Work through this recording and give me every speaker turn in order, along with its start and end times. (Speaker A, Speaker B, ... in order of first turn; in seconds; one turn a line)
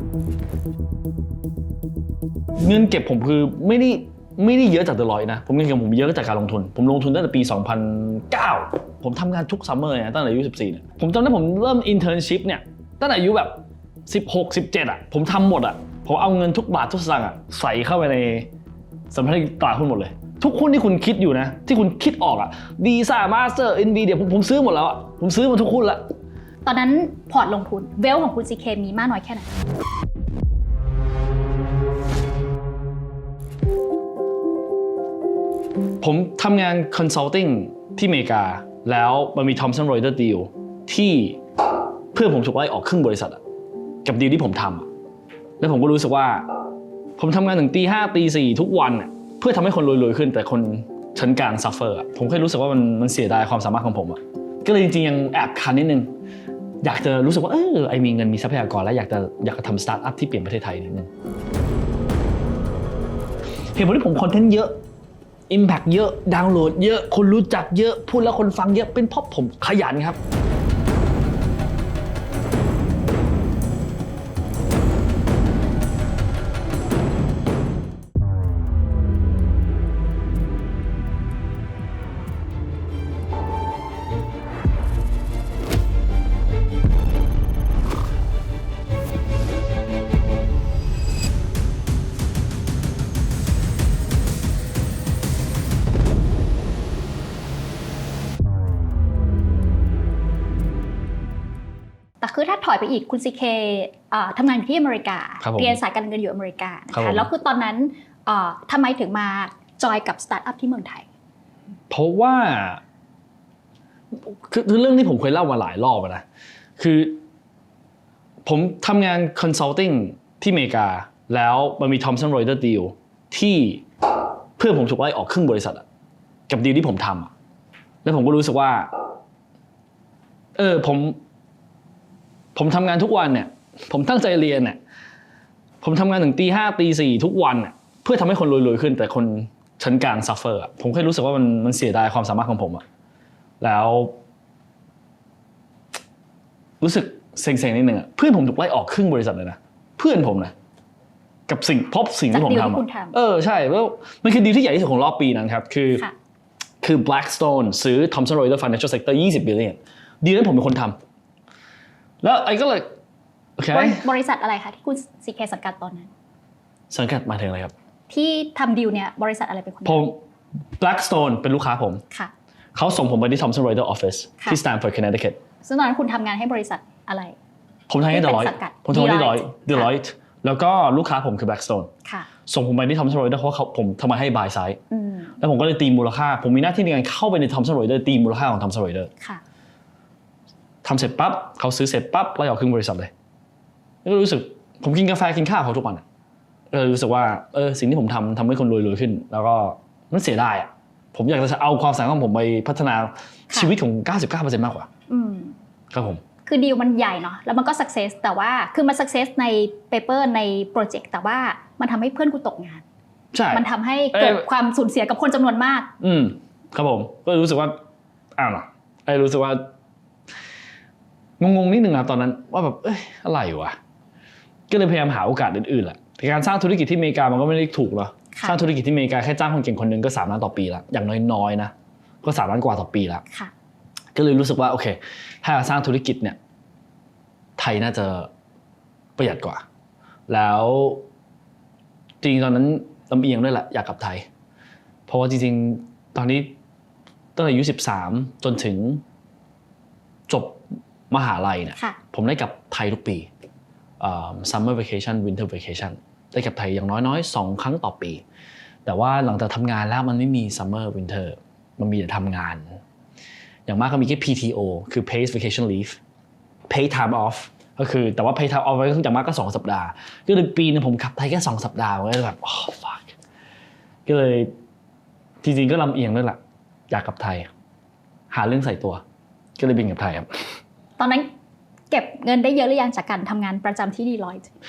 Speaker A: 2.6-18.5
Speaker A: 19.1-26.0
Speaker B: 26.6-29.5
Speaker A: 36.0-41.4
Speaker A: 42.1-43.4
Speaker A: 44.0-44.9
Speaker A: 45.6-46.5
Speaker A: 47.2-56.1
Speaker A: 56.8-61.1
Speaker A: 63.8-64.8
Speaker A: 65.5-70.2
Speaker B: 102.2-111.1
Speaker A: 105.4-105.8
Speaker A: 106.9-107.3
Speaker A: 111.9-112.8
Speaker A: 114.2-116.2
Speaker A: 116.8-117.2
Speaker A: 118.5-123.8
Speaker A: 124.6-125.8
Speaker A: 126.5-127.3
Speaker A: 128.0-128.9
Speaker A: 130.6-131.2
Speaker A: 132.6-134.8
Speaker A: 135.8-142.8
Speaker A: 143.6-144.2
Speaker A: 146.8-150.5
Speaker A: 151.5-156.0
Speaker B: 152.3-153.2
Speaker A: 156.8-161.0
Speaker A: 162.2-162.9
Speaker A: 163.6-164.0
Speaker B: 163.7-166.1
Speaker A: 166.9-167.7
Speaker B: 168.1-170.1
Speaker A: 169.9-170.2
Speaker A: 170.8-172.0
Speaker A: 172.8-175.4
Speaker B: 175.7-177.3
Speaker A: 177.9-181.9
Speaker B: 178.1-179.9
Speaker B: 182.1-182.3
Speaker A: 182.5-184.8
Speaker B: 184.9-185.3
Speaker A: 185.4-189.1
Speaker A: 190.8-193.1
Speaker A: 194.0-196.0
Speaker A: 196.7-204.9
Speaker B: 205.1-205.6
Speaker A: 205.9-206.2
Speaker B: 206.5-212.8
Speaker A: 213.3-213.6
Speaker B: 213.5-215.9
Speaker A: 214.1-214.5
Speaker A: 216.0-217.8
Speaker A: 218.4-219.7
Speaker A: 221.4-223.8
Speaker A: 224.7-233.2
Speaker B: 228.3-228.6
Speaker A: 234.2-236.4
Speaker A: 237.6-238.3
Speaker A: 239.2-239.7
Speaker A: 240.3-241.0
Speaker A: 242.2-244.2
Speaker A: 245.1-246.5
Speaker A: 247.4-249.0
Speaker A: 250.3-253.3
Speaker A: 254.0-258.2
Speaker A: 258.9-262.8
Speaker A: 263.7-266.0
Speaker A: 266.7-273.2
Speaker A: 274.1-274.5
Speaker A: 275.4-276.4
Speaker A: 276.9-277.5
Speaker A: 278.3-279.0
Speaker A: 279.6-280.3
Speaker B: 281.0-281.3
Speaker B: 281.9-284.5